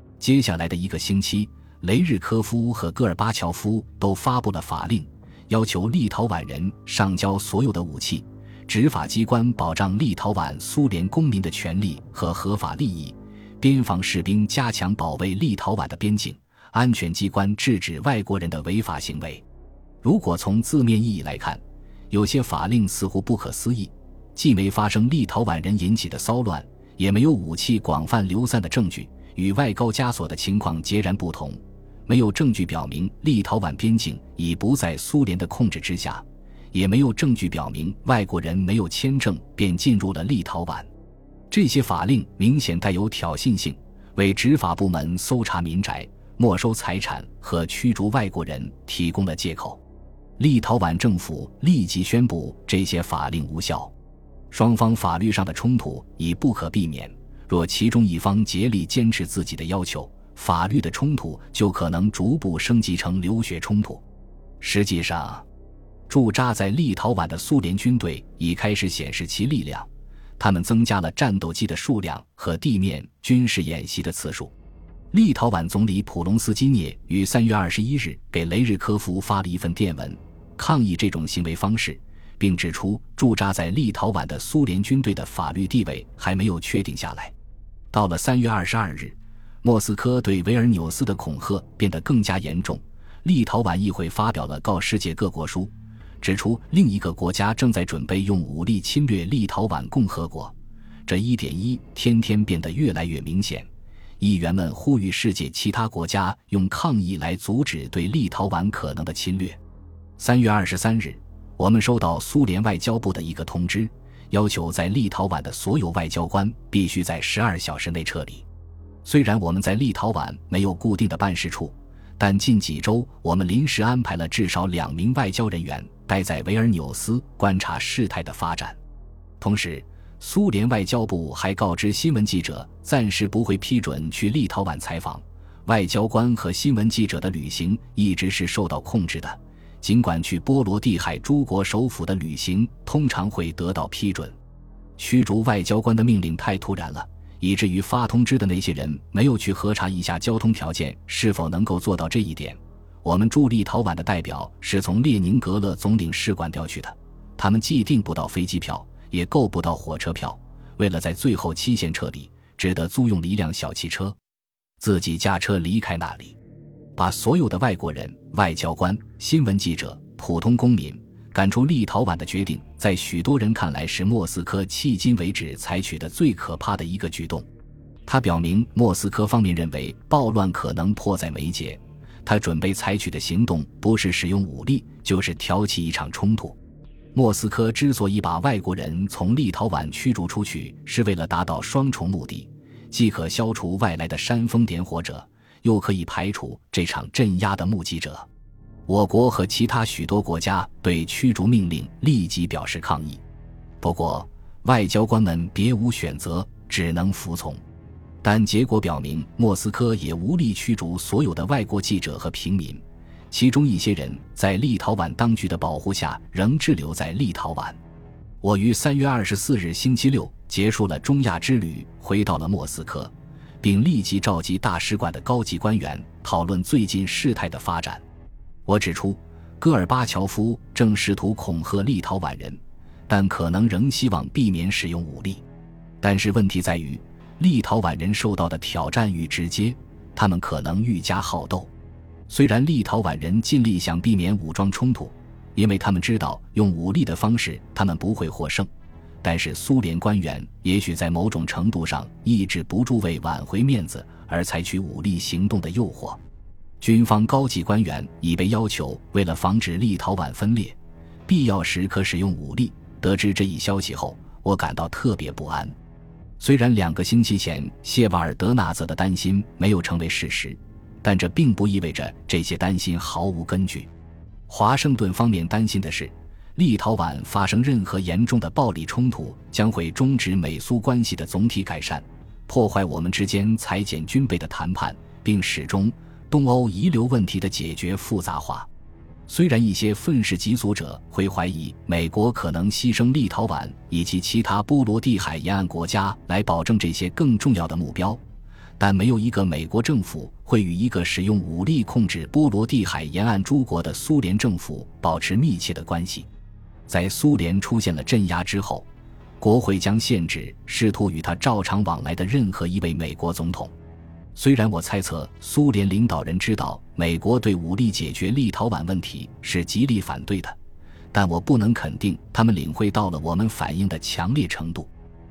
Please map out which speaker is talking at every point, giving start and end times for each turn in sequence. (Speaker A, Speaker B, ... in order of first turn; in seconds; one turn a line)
Speaker A: 0.2-19.4
Speaker A: 20.0-40.9
Speaker A: 41.5-49.8
Speaker A: 50.4-53.9
Speaker A: 54.5-64.0
Speaker A: 64.6-65.5
Speaker A: 66.1-74.5
Speaker A: 75.1-87.3
Speaker A: 87.9-100.5
Speaker A: 101.1-103.7
Speaker A: 104.2-109.6
Speaker A: 110.2-118.5
Speaker A: 119.0-128.8
Speaker A: 129.4-144.4
Speaker A: 145.0-164.2
Speaker A: 164.8-166.4
Speaker A: 167.0-177.5
Speaker A: 178.1-186.6
Speaker A: 187.1-198.3
Speaker A: 198.9-203.2
Speaker A: 203.8-207.6
Speaker A: 208.2-217.8
Speaker A: 218.4-228.0
Speaker A: 228.7-235.4
Speaker A: 236.0-241.7
Speaker A: 242.3-248.7
Speaker A: 249.2-256.2
Speaker A: 256.8-260.8
Speaker A: 261.3-265.8
Speaker A: 266.4-273.9
Speaker A: 274.5-288.7
Speaker A: 289.3-298.2
Speaker A: 298.8-306.3
Speaker A: 306.9-308.9
Speaker A: 309.4-313.7
Speaker A: 314.4-320.6
Speaker A: 321.1-324.9